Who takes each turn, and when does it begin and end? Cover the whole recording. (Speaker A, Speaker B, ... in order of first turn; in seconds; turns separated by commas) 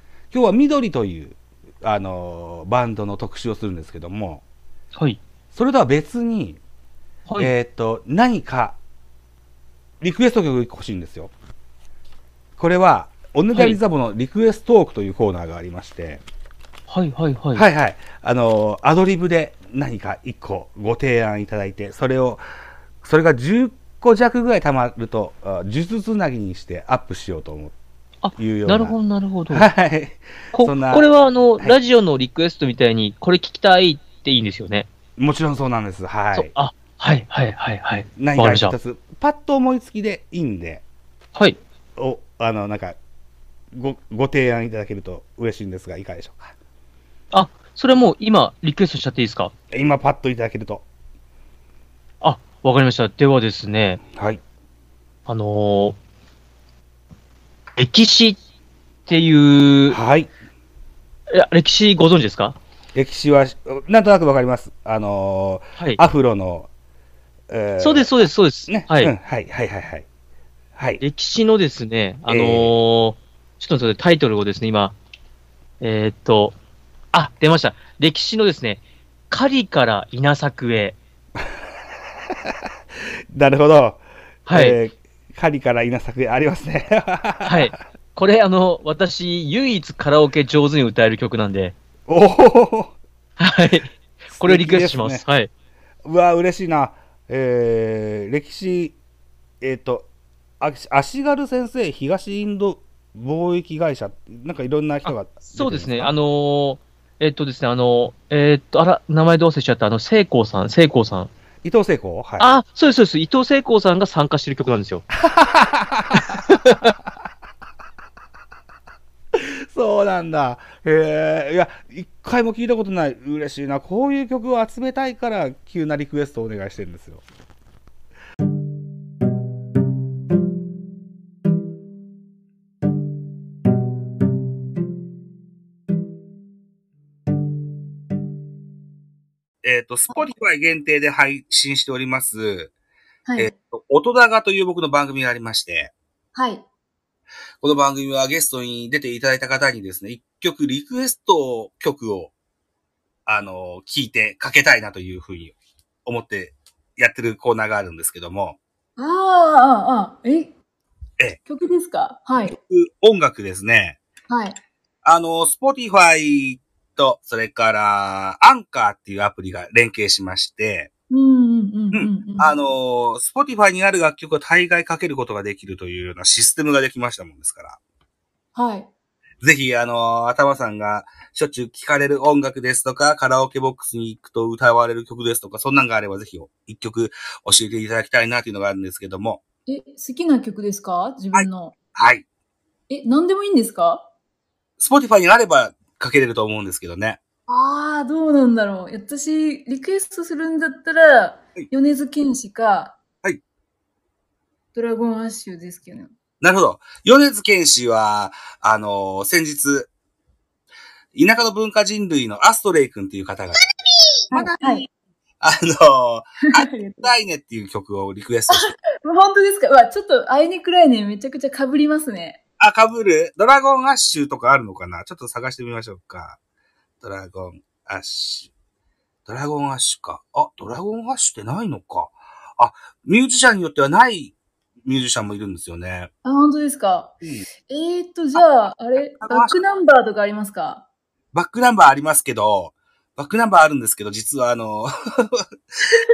Speaker A: 0.3-4.4, Speaker B: 5.0-5.2, Speaker A: 5.5-6.6, Speaker B: 7.3-7.5, Speaker A: 7.4-8.8, Speaker A: 10.0-11.3, Speaker A: 12.6-16.2, Speaker B: 13.5-13.8, Speaker B: 16.9-17.6, Speaker A: 17.6-22.4, Speaker A: 23.0-27.7, Speaker B: 28.2-29.7, Speaker A: 28.4-29.0, Speaker A: 29.5-31.1, Speaker B: 30.5-34.9, Speaker A: 35.2-36.5, Speaker B: 36.3-38.8, Speaker A: 38.2-40.8, Speaker A: 42.0-43.0, Speaker A: 43.7-46.5, Speaker B: 47.3-49.5, Speaker A: 49.7-50.9, Speaker B: 52.2-54.0, Speaker A: 54.1-54.4, Speaker B: 55.3-56.0, Speaker B: 57.8-58.4, Speaker B: 59.1-60.0, Speaker A: 59.9-60.3, Speaker B: 61.3-62.6, Speaker A: 63.0-66.7, Speaker A: 67.5-70.1, Speaker B: 67.8-69.1, Speaker A: 70.8-71.0, Speaker B: 71.0-75.0, Speaker A: 72.3-72.8, Speaker B: 75.8-76.6, Speaker B: 77.1-81.0, Speaker A: 83.3-87.7, Speaker B: 84.5-84.8, Speaker B: 87.5-91.8, Speaker A: 92.1-93.0, Speaker B: 93.4-95.5, Speaker A: 94.3-95.2, Speaker A: 96.0-99.0, Speaker A: 99.6-100.1, Speaker A: 100.6-106.1, Speaker B: 105.0-111.3, Speaker A: 111.6-112.5, Speaker B: 112.4-115.0, Speaker A: 115.1-116.8, Speaker A: 119.3-127.2, Speaker A: 139.6-142.7, Speaker C: 143.3-143.5, Speaker A: 143.4-145.9, Speaker C: 146.3-146.7, Speaker A: 147.6-152.3, Speaker A: 153.3-158.6, Speaker C: 159.0-160.6, Speaker C: 161.5-162.6, Speaker A: 162.5-164.0, Speaker C: 164.3-164.6, Speaker A: 165.0-170.9, Speaker C: 171.1-172.6, Speaker A: 171.9-177.8, Speaker C: 178.6-178.9, Speaker A: 179.4-189.4, Speaker C: 189.7-191.8, Speaker A: 191.3-192.2, Speaker C: 192.9-194.1, Speaker A: 194.8-197.2, Speaker C: 197.5-203.0, Speaker C: 204.7-206.1, Speaker A: 206.4-209.9, Speaker A: 211.1-213.7, Speaker A: 214.3-214.9, Speaker C: 214.3-214.9, Speaker A: 215.4-218.7, Speaker C: 216.5-217.1, Speaker C: 218.5-222.4, Speaker A: 222.6-226.4, Speaker A: 227.0-228.5, Speaker A: 229.3-236.1, Speaker C: 236.2-240.9, Speaker A: 237.2-237.5, Speaker A: 239.2-239.6, Speaker A: 241.3-245.4